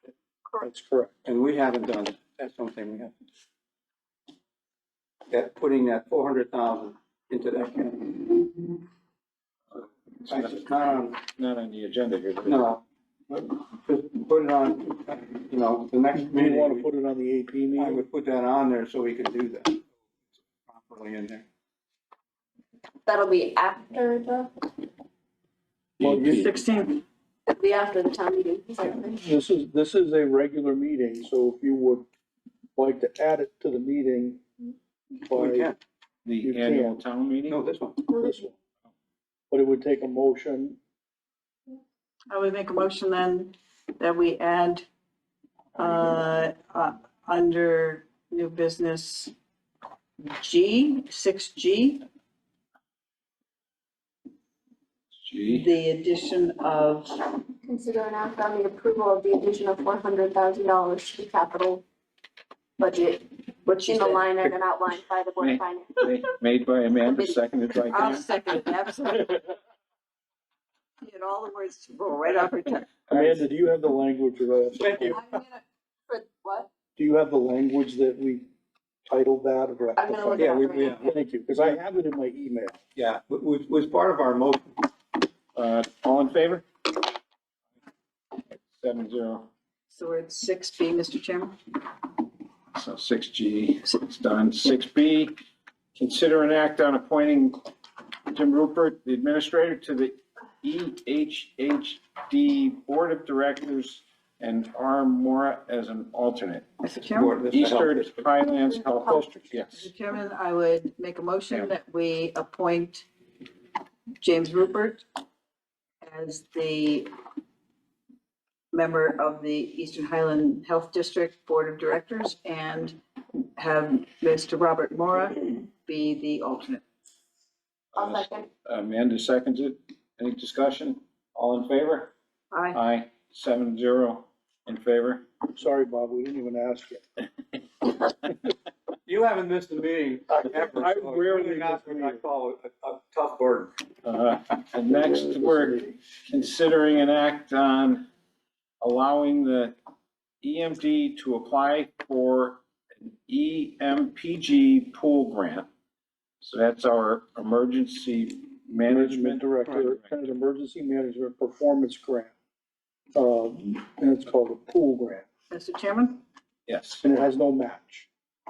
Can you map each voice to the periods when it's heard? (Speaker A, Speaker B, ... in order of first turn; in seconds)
Speaker A: 0.6-1.2, 16.1-18.0, 26.0-26.5, 29.1-32.1, 32.8-34.4, 35.3-35.7, 36.4-37.0, 38.1-38.5, 39.5-40.8, 73.1-75.2, 77.0-78.5, 79.1-82.8, 135.5-137.1, 140.3-142.2, 158.9-162.3, 163.1-165.3, 167.0-168.1
Speaker B: 1.2-3.1, 5.3-8.6, 10.3-11.2, 12.4-16.9, 17.8-19.9, 20.7-21.4, 26.0-26.5, 35.3-35.8, 37.5-38.1, 74.8-75.2, 80.4-81.1, 83.0-84.8, 107.1-108.1, 139.1-143.7
Speaker C: 9.7-12.7, 36.2-37.6, 55.2-55.7, 65.4-68.3, 73.1-73.4, 85.5-86.7, 88.5-89.5, 92.7-95.4, 96.0-97.6, 98.3-106.7, 107.5-109.9, 128.0-132.1, 132.7-135.3, 140.8-141.5, 144.0-148.1, 148.8-149.8, 150.4-155.7, 156.4-160.2, 166.7-167.0
Speaker D: 23.1-24.5, 27.5-29.2, 38.1-38.4, 57.6-61.8, 62.8-66.1, 75.1-76.7, 80.0-81.1, 128.0-128.5
Speaker E: 26.2-27.0, 42.3-44.9, 45.8-49.3, 50.2-52.0, 55.5-57.3, 63.6-64.3, 67.9-69.5, 71.0-72.9, 89.9-91.6, 106.8-107.4, 109.8-113.1, 114.2-115.0, 116.0-117.1, 118.7-123.0, 123.6-126.8, 132.5-132.8, 165.5-166.2